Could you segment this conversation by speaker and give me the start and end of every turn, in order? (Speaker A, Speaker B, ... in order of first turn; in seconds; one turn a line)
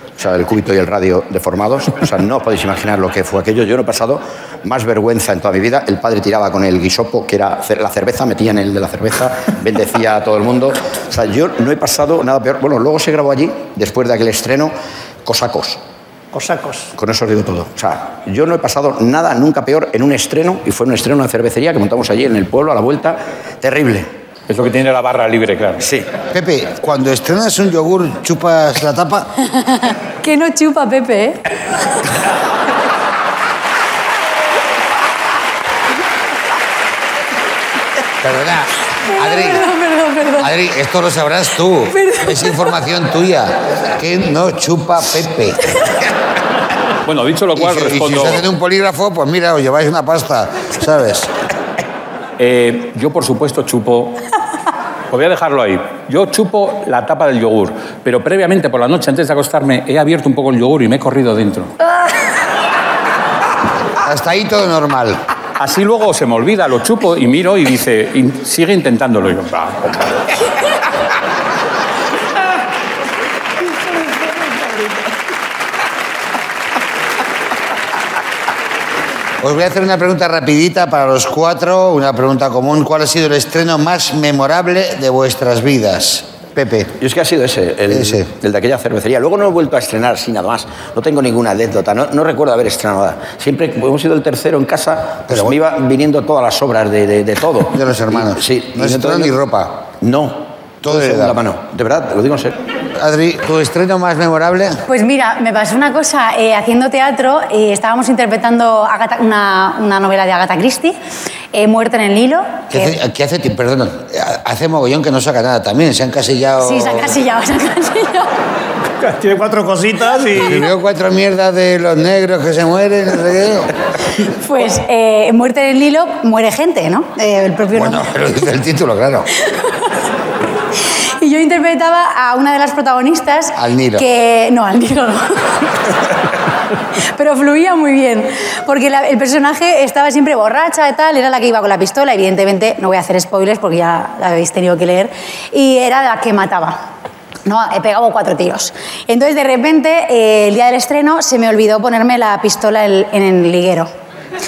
Speaker A: 0.2-14.7
Speaker A: 15.2-15.8
Speaker B: 16.3-16.9
Speaker A: 16.9-24.1
Speaker C: 24.5-25.9
Speaker A: 25.8-26.1
Speaker D: 26.3-29.3
Speaker E: 29.6-31.4
Speaker D: 38.2-39.7
Speaker E: 39.0-40.5
Speaker D: 40.4-45.6
Speaker E: 41.9-42.5
Speaker C: 47.0-48.5
Speaker D: 47.5-51.3
Speaker C: 52.4-54.3
Speaker C: 55.1-61.7
Speaker D: 64.0-65.2
Speaker C: 65.6-70.2
Speaker D: 79.4-87.0
Speaker A: 87.0-99.3
Speaker D: 87.9-88.2
Speaker D: 95.3-95.6
Speaker D: 97.7-99.9
Speaker A: 100.0-102.6
Speaker D: 100.8-101.4
Speaker D: 103.0-104.8
Speaker E: 104.9-111.0
Speaker E: 111.5-113.0
Speaker D: 112.7-117.2
Speaker E: 116.6-118.3
Speaker B: 119.0-120.7
Speaker D: 120.3-123.7
Speaker E: 124.2-128.1
Speaker D: 127.7-129.3
Speaker E: 131.2-135.7
Speaker D: 133.6-134.1
Speaker E: 137.1-146.8
Speaker E: 147.4-153.9